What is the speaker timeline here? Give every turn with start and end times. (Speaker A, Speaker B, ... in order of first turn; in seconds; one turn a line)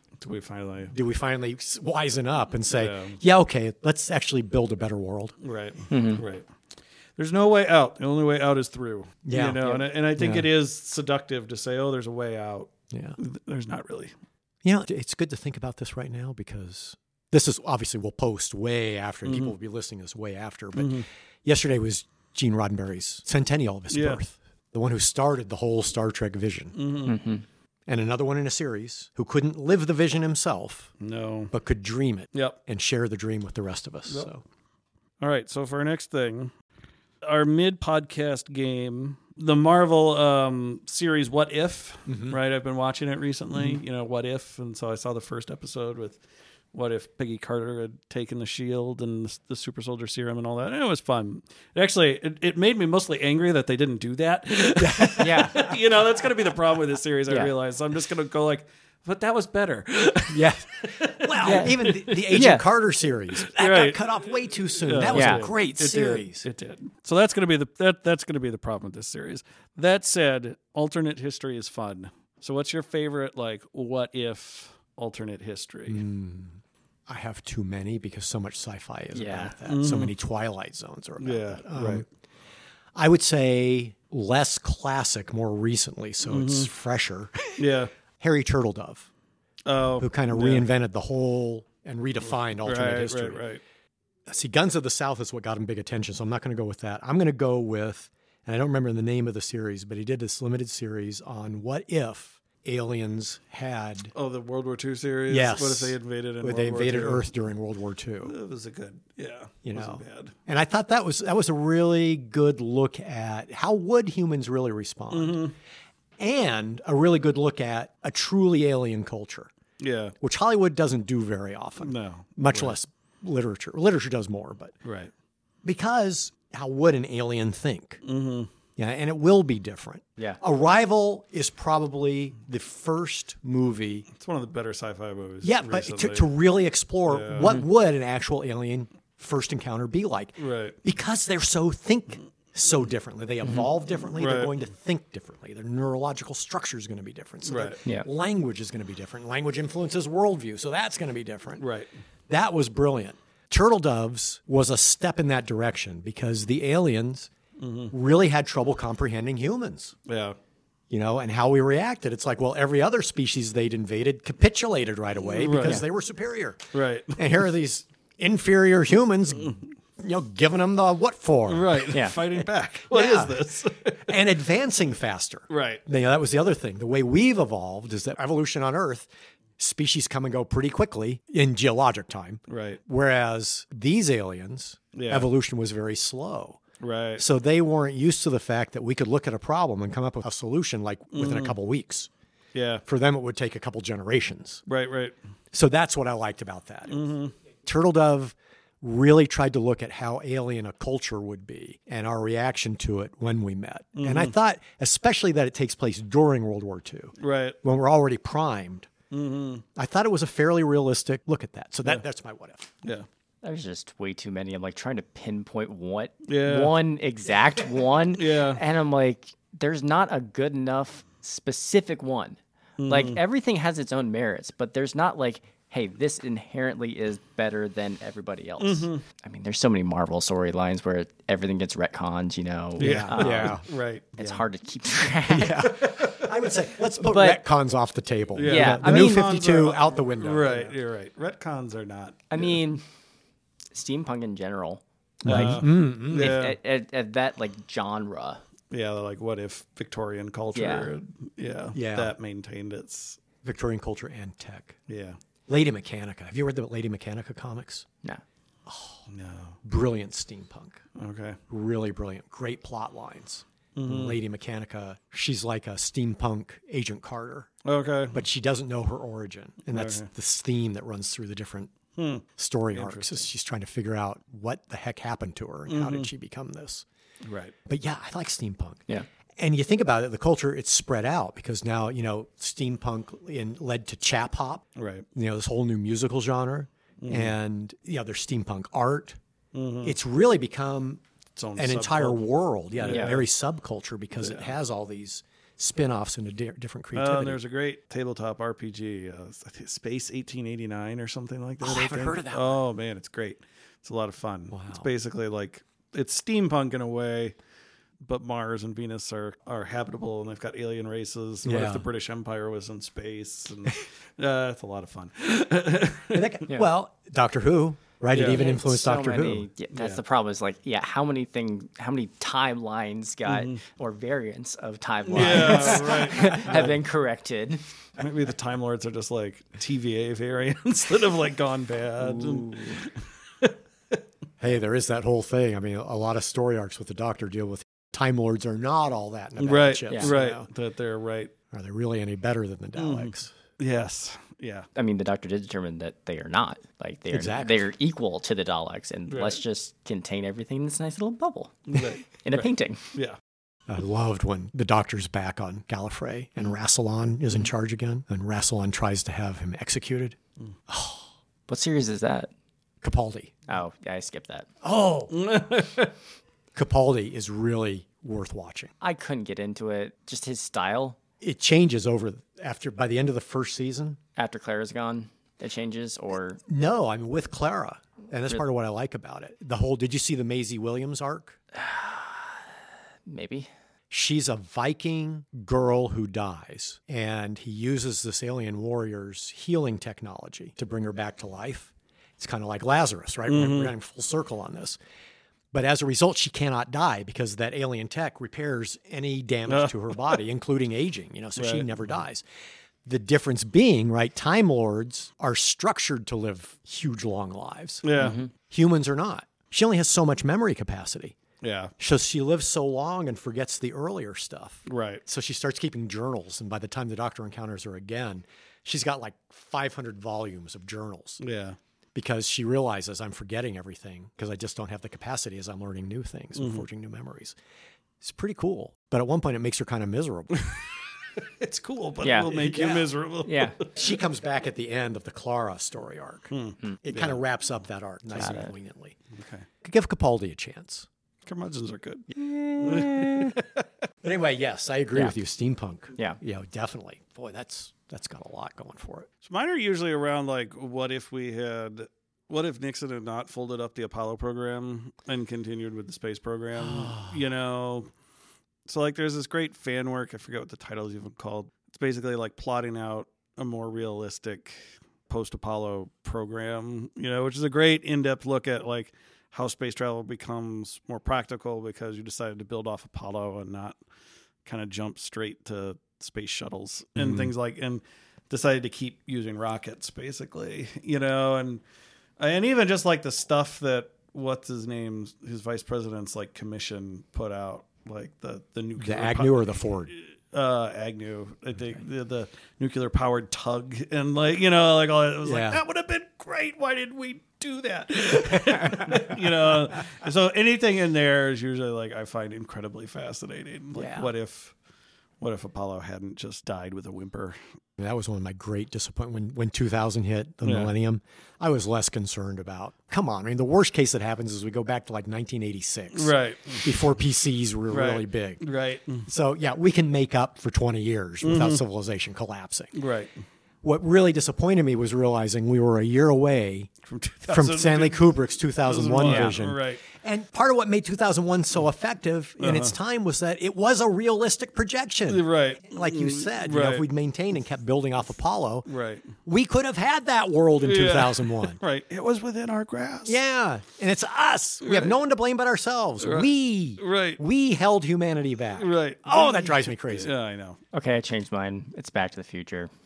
Speaker A: 0.2-0.9
Speaker B: 0.9-5.3
Speaker A: 2.7-3.2
Speaker A: 5.4-6.5
Speaker C: 5.9-6.2
Speaker A: 7.2-14.1
Speaker B: 9.2-9.6
Speaker B: 10.2-10.5
Speaker B: 12.9-13.2
Speaker B: 14.6-26.8
Speaker A: 19.2-19.5
Speaker A: 20.7-21.1
Speaker A: 23.9-24.2
Speaker A: 26.8-27.2
Speaker C: 27.1-27.4
Speaker B: 27.9-30.9
Speaker A: 31.0-31.5
Speaker B: 31.5-34.4
Speaker A: 35.2-36.5
Speaker A: 37.2-46.2
Speaker B: 42.1-42.4
Speaker B: 43.5-43.8
Speaker A: 46.7-62.2
Speaker B: 54.8-55.8
Speaker C: 55.2-55.7
Speaker B: 60.3-66.5
Speaker C: 61.4-62.6
Speaker A: 63.4-64.1
Speaker A: 64.8-76.0
Speaker C: 65.1-65.5
Speaker B: 75.9-82.0
Speaker C: 79.1-79.5
Speaker A: 79.7-80.1
Speaker A: 81.2-82.0
Speaker B: 82.9-87.6
Speaker A: 86.2-86.7
Speaker A: 87.6-87.9
Speaker B: 88.2-89.1
Speaker A: 89.7-90.7
Speaker B: 90.0-93.4
Speaker A: 92.6-93.6
Speaker B: 94.2-104.1
Speaker A: 104.1-107.2
Speaker B: 105.3-108.3
Speaker A: 108.2-110.3
Speaker B: 109.6-115.4
Speaker A: 115.1-115.5
Speaker B: 116.2-119.5
Speaker A: 119.8-120.1
Speaker B: 120.2-124.8
Speaker A: 121.8-122.7
Speaker A: 124.8-125.1
Speaker B: 125.6-128.0
Speaker A: 128.0-128.5
Speaker B: 128.8-134.1
Speaker A: 134.2-136.3
Speaker B: 135.4-151.6
Speaker A: 137.1-137.6
Speaker A: 140.4-140.8
Speaker A: 144.1-144.5
Speaker A: 147.4-147.8
Speaker A: 151.6-151.9
Speaker B: 152.3-157.3
Speaker A: 157.6-157.9
Speaker B: 157.9-159.9
Speaker A: 160.1-160.3
Speaker B: 160.9-173.5
Speaker A: 165.3-165.8
Speaker A: 166.7-167.3
Speaker A: 171.5-174.2
Speaker C: 171.9-172.2
Speaker B: 174.0-186.6
Speaker A: 175.5-175.8
Speaker A: 182.5-182.8
Speaker A: 184.9-185.3
Speaker A: 186.8-187.2
Speaker B: 187.2-192.1
Speaker A: 191.1-191.5
Speaker A: 192.5-192.8
Speaker B: 192.8-194.6
Speaker A: 194.7-195.2
Speaker B: 195.5-208.9
Speaker A: 196.9-197.3
Speaker A: 203.9-204.3
Speaker A: 207.2-207.6
Speaker A: 209.1-209.6
Speaker B: 209.8-212.7
Speaker C: 213.4-233.6
Speaker A: 216.2-216.8
Speaker A: 218.1-218.6
Speaker A: 222.8-223.2
Speaker A: 228.6-229.0
Speaker B: 232.8-233.6
Speaker A: 232.8-234.4
Speaker C: 234.2-235.7
Speaker B: 235.3-240.7
Speaker A: 235.8-236.2
Speaker C: 237.0-237.4
Speaker A: 238.3-242.6
Speaker C: 238.4-239.3
Speaker C: 242.3-242.8
Speaker C: 243.7-248.4
Speaker B: 245.2-246.4
Speaker A: 245.2-246.6
Speaker A: 248.7-253.2
Speaker C: 250.5-250.9
Speaker B: 251.7-252.1
Speaker B: 253.4-254.8
Speaker A: 254.9-255.2
Speaker B: 255.5-257.9
Speaker B: 258.7-259.0
Speaker A: 259.1-259.6
Speaker B: 259.6-260.8
Speaker A: 260.9-261.4
Speaker B: 261.5-267.5
Speaker A: 263.8-264.2
Speaker A: 267.6-268.2
Speaker B: 268.1-271.7
Speaker A: 269.7-270.1
Speaker A: 272.0-273.2
Speaker B: 272.4-276.8
Speaker A: 275.7-276.1
Speaker A: 277.2-277.5
Speaker B: 277.7-284.6
Speaker A: 284.8-285.1
Speaker B: 285.1-289.2
Speaker A: 287.0-287.3
Speaker A: 289.5-289.9
Speaker B: 289.8-291.0
Speaker A: 291.4-292.2
Speaker B: 291.6-297.4
Speaker A: 292.8-293.2
Speaker C: 292.9-293.2
Speaker A: 294.2-294.5
Speaker A: 296.9-307.3
Speaker B: 301.6-302.6
Speaker B: 304.5-304.9
Speaker A: 308.0-316.4
Speaker B: 311.4-311.9
Speaker B: 316.1-319.5
Speaker A: 318.1-318.5
Speaker C: 318.1-327.6
Speaker A: 319.7-320.0
Speaker A: 323.2-323.6
Speaker A: 325.1-326.8
Speaker B: 325.1-326.6
Speaker A: 328.0-333.5
Speaker C: 332.0-332.8
Speaker B: 334.4-340.5
Speaker A: 339.4-341.3
Speaker B: 341.5-343.3
Speaker A: 342.8-344.7
Speaker C: 344.7-352.8
Speaker B: 347.1-347.7
Speaker A: 349.1-349.4
Speaker A: 351.7-353.2
Speaker B: 353.7-360.2
Speaker B: 360.7-361.1
Speaker C: 361.5-362.3
Speaker B: 362.8-363.4
Speaker C: 363.5-364.5
Speaker B: 364.6-365.1
Speaker A: 365.1-365.9
Speaker B: 366.5-368.7
Speaker C: 368.8-371.0
Speaker B: 371.2-374.0
Speaker C: 374.2-376.4
Speaker B: 376.5-381.4
Speaker C: 381.5-382.4
Speaker C: 383.1-383.5
Speaker B: 383.9-394.8
Speaker A: 393.3-393.7
Speaker B: 395.5-402.2
Speaker A: 399.5-400.2
Speaker A: 401.4-401.7
Speaker B: 402.8-407.9
Speaker A: 407.8-408.2
Speaker C: 408.0-408.3
Speaker B: 408.4-411.2
Speaker A: 411.4-411.7
Speaker B: 411.8-421.2
Speaker A: 414.7-415.0
Speaker A: 421.2-421.6
Speaker B: 421.9-427.4
Speaker A: 426.4-426.6
Speaker B: 428.0-430.4
Speaker A: 431.2-433.7
Speaker C: 432.0-432.3
Speaker B: 432.3-432.9
Speaker C: 433.2-433.6
Speaker B: 433.7-436.3
Speaker A: 436.3-437.2
Speaker B: 436.8-439.0
Speaker C: 438.1-438.5
Speaker A: 439.1-439.4
Speaker B: 439.6-440.9
Speaker A: 441.2-442.1
Speaker C: 442.1-443.3
Speaker B: 442.6-443.2
Speaker A: 442.6-443.4
Speaker B: 444.0-449.1
Speaker A: 449.2-457.9
Speaker B: 456.6-457.2
Speaker A: 458.7-473.8
Speaker A: 474.4-481.6
Speaker B: 477.0-477.3
Speaker A: 482.2-504.5
Speaker B: 488.8-489.9
Speaker B: 495.2-495.6
Speaker B: 498.4-499.2
Speaker B: 503.7-504.1
Speaker A: 505.2-507.4
Speaker B: 507.8-518.4
Speaker A: 510.4-510.7
Speaker A: 515.9-516.7
Speaker A: 517.7-519.1
Speaker B: 519.0-522.7
Speaker A: 521.2-521.6
Speaker A: 522.7-523.2
Speaker B: 523.6-526.7
Speaker A: 526.9-528.0
Speaker B: 527.3-538.7
Speaker A: 528.6-529.8
Speaker C: 529.0-529.4
Speaker A: 532.4-532.7
Speaker A: 535.1-536.8
Speaker A: 538.7-539.1
Speaker B: 539.2-541.6
Speaker A: 540.6-543.2
Speaker B: 543.0-550.1
Speaker A: 544.6-544.9
Speaker A: 546.0-547.2
Speaker A: 548.6-550.6
Speaker C: 550.7-552.7